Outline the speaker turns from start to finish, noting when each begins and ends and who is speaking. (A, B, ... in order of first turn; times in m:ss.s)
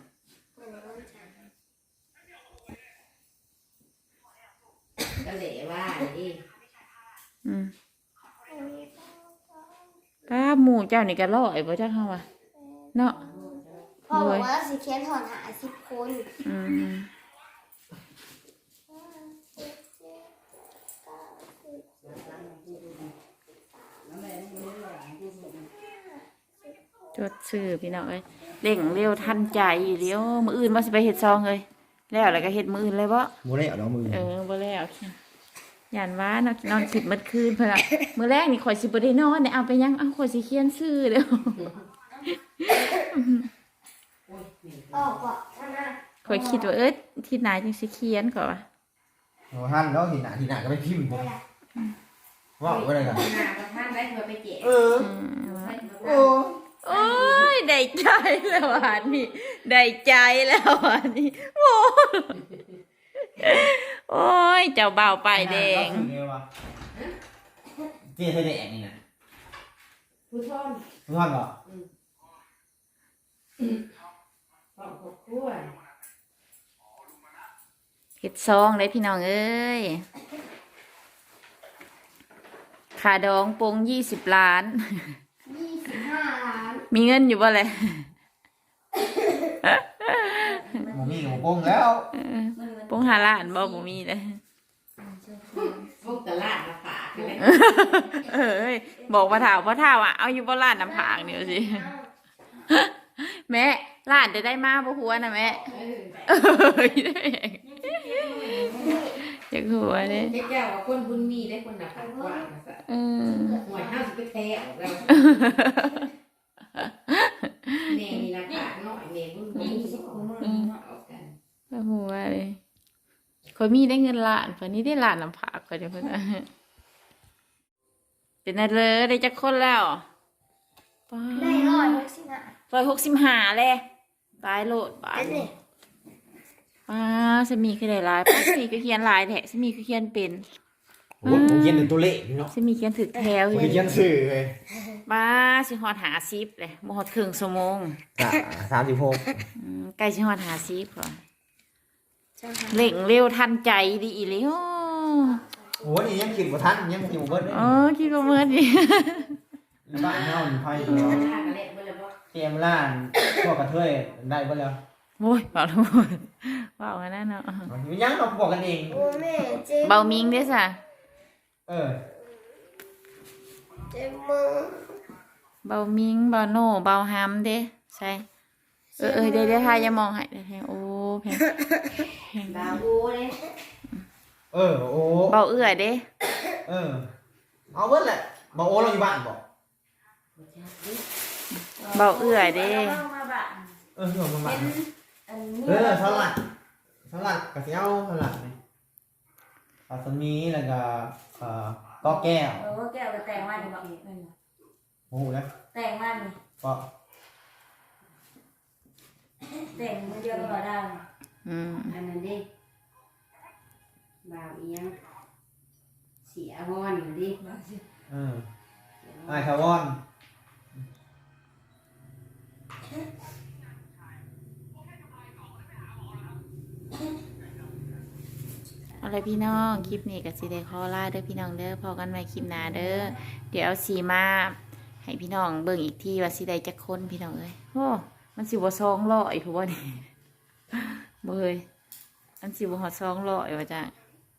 0:00.6-0:01.3 A
0:05.1-0:06.4 B
0:07.4-0:07.7 C
0:08.5-0:09.3 A
0:10.3-0:12.2 C
0:12.9-0:13.2 C
0:13.1-0:14.0 B
0:14.0-0:16.3 A
0:14.1-0:14.5 C
0:16.4-0:17.1 C
0:18.9-0:20.3 A
0:21.1-0:22.0 A
0:22.0-0:23.1 B
0:24.1-0:25.6 D
0:27.1-0:33.3 C
0:33.4-0:34.3 E
0:34.1-0:35.2 C
0:35.9-0:41.6 C
0:42.6-0:43.5 C
0:44.2-0:45.3 B
0:44.9-0:46.1 A
0:46.2-0:48.6 C
0:46.2-0:46.6 D
0:49.5-0:51.2 E
0:51.1-0:51.4 A
0:52.6-0:53.3 E
0:52.6-0:57.6 B
0:54.6-0:55.1 E
0:55.0-0:55.8 C
0:56.0-0:56.6 E
0:56.8-1:02.4 C
1:03.2-1:06.1 C
1:05.3-1:06.4 E
1:08.1-1:09.0 E
1:10.3-1:10.9 B
1:11.1-1:11.5 E
1:14.7-1:15.7 B
1:18.2-1:20.0 C
1:22.9-1:25.2 C
1:25.4-1:26.8 A
1:26.9-1:28.1 C
1:29.0-1:29.5 A
1:29.6-1:30.4 C
1:30.3-1:31.5 D
1:30.9-1:32.1 E
1:32.1-1:34.4 C
1:32.5-1:33.9 D
1:35.0-1:36.0 D
1:36.0-1:37.6 B
1:37.2-1:39.7 D
1:37.4-1:41.9 C
1:40.8-1:42.1 A
1:42.7-1:45.7 C
1:45.6-1:46.3 B
1:46.2-1:50.4 C
1:47.6-1:49.1 D
1:48.7-1:49.2 A
1:50.1-1:52.8 B
1:51.9-1:52.5 A
1:52.9-1:53.6 C
1:53.3-1:54.0 A
1:53.6-1:55.7 B
1:55.1-1:56.1 C
1:56.8-1:58.2 C
1:57.8-2:01.4 B
1:58.5-1:58.7 D
1:59.5-2:00.8 D
2:00.4-2:00.7 C
2:01.7-2:02.6 C
2:03.5-2:06.5 C
2:08.4-2:10.0 C
2:11.1-2:12.0 C
2:11.3-2:12.5 A
2:12.7-2:13.8 C
2:14.4-2:15.5 C
2:15.1-2:15.5 A
2:16.9-2:20.4 C
2:21.2-2:22.5 E
2:21.2-2:21.9 C
2:22.5-2:24.0 C
2:23.5-2:24.6 E
2:25.0-2:28.0 C
2:28.2-2:29.4 E
2:29.6-2:31.2 C
2:32.4-2:32.9 A
2:32.7-2:35.4 C
2:35.5-2:35.9 A
2:35.8-2:37.8 E
2:37.4-2:39.4 C
2:39.8-2:41.3 E
2:40.7-2:42.2 B
2:40.9-2:41.2 C
2:42.3-2:44.8 E
2:45.2-2:47.7 C
2:47.7-2:49.0 E
2:48.9-2:50.5 A
2:49.0-2:49.2 B
2:49.8-2:50.8 C
2:51.7-2:52.0 E
2:53.9-2:55.0 A
2:55.6-2:58.2 C
2:59.0-2:59.9 A
2:59.0-3:02.8 C
3:02.4-3:03.5 B
3:04.5-3:05.4 E
3:05.3-3:06.0 C
3:06.6-3:07.1 E
3:07.7-3:09.4 E
3:10.4-3:11.1 B
3:11.5-3:13.0 C
3:11.8-3:13.8 D
3:14.0-3:14.8 E
3:14.4-3:16.3 D
3:15.6-3:16.4 E
3:17.1-3:18.6 E
3:19.9-3:22.7 E
3:22.0-3:24.3 D
3:23.2-3:24.0 B
3:25.1-3:25.5 E
3:25.7-3:26.4 D
3:26.6-3:26.9 E
3:29.5-3:31.0 D
3:29.7-3:30.6 B
3:31.4-3:32.0 C
3:31.9-3:32.4 B
3:34.2-3:35.0 B
3:36.2-3:37.4 B
3:37.4-3:37.8 D
3:38.1-3:38.5 E
3:39.0-3:39.6 B
3:39.3-3:40.0 E
3:49.0-4:00.1 C
4:00.7-4:01.6 C
4:02.4-4:03.9 C